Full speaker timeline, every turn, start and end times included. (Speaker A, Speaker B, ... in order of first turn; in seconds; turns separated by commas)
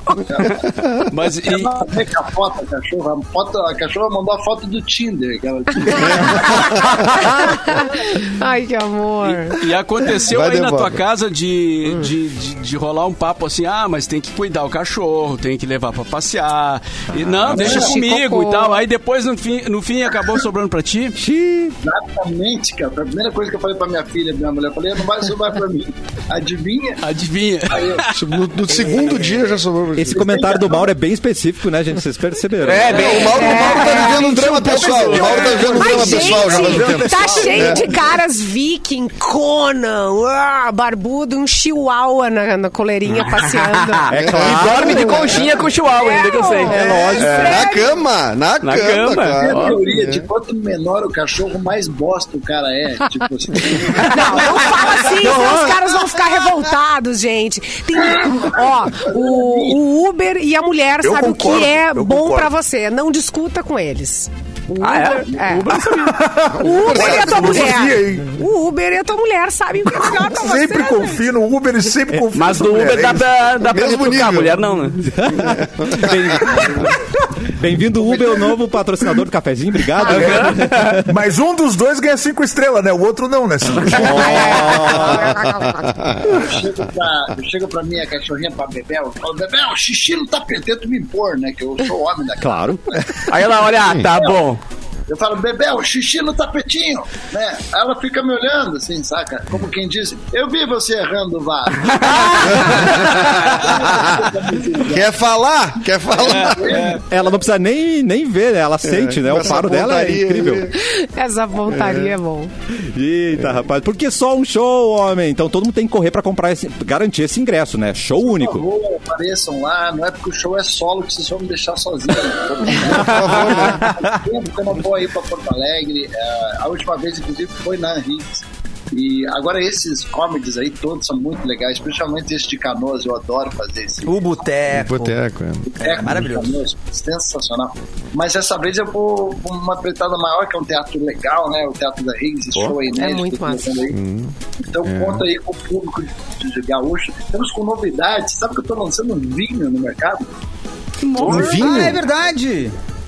Speaker A: 0.2-7.5, Speaker B: 0.7-1.1, Speaker C: 1.1-1.8, Speaker B: 6.2-6.9, Speaker D: 7.2-9.6, Speaker C: 9.5-21.2, Speaker B: 10.2-11.0, Speaker E: 17.1-17.8, Speaker A: 17.5-17.9, Speaker D: 17.5-18.8, Speaker E: 21.1-21.8, Speaker A: 21.8-27.1, Speaker C: 27.0-28.2, Speaker A: 27.6-28.1, Speaker B: 28.1-30.3, Speaker E: 29.9-33.1, Speaker A: 30.1-30.9, Speaker F: 32.6-33.7, Speaker B: 32.9-37.9, Speaker D: 33.1-34.2, Speaker C: 33.3-37.8, Speaker D: 35.6-44.1, Speaker F: 43.3-47.6, Speaker E: 44.1-45.3, Speaker B: 44.1-45.7, Speaker D: 44.7-45.4, Speaker D: 45.9-48.0, Speaker E: 46.7-47.5, Speaker B: 47.4-50.3, Speaker F: 48.6-49.8, Speaker A: 49.3-55.1, Speaker D: 53.9-71.3, Speaker A: 58.1-59.8, Speaker G: 61.0-62.5, Speaker F: 64.8-66.2, Speaker G: 66.0-68.3, Speaker B: 66.5-67.7, Speaker G: 70.0-73.3, Speaker F: 72.3-75.1, Speaker B: 73.6-74.7, Speaker E: 75.0-81.1, Speaker B: 75.3-76.9, Speaker D: 80.0-80.4, Speaker F: 80.1-81.0, Speaker G: 81.0-84.6, Speaker E: 83.9-85.3, Speaker D: 83.9-86.2, Speaker B: 85.3-86.5, Speaker A: 86.2-93.2, Speaker E: 92.4-92.8, Speaker F: 93.3-94.6, Speaker B: 93.8-94.1, Speaker A: 94.0-94.4, Speaker A: 95.1-105.1, Speaker F: 101.8-103.0, Speaker B: 104.8-106.9, Speaker A: 106.1-107.4, Speaker C: 106.3-107.0, Speaker E: 107.1-110.7, Speaker B: 108.8-110.7, Speaker D: 110.7-112.5, Speaker B: 111.7-112.1, Speaker E: 112.7-118.6, Speaker A: 118.2-134.4, Speaker B: 122.8-123.9, Speaker H: 134.0-135.1, Speaker B: 134.7-135.7, Speaker A: 135.7-144.0, Speaker H: 135.8-136.6, Speaker D: 142.9-143.9, Speaker B: 143.9-144.3, Speaker A: 144.6-150.3, Speaker B: 144.8-145.2, Speaker F: 151.0-151.6, Speaker B: 151.2-152.0, Speaker H: 151.3-152.7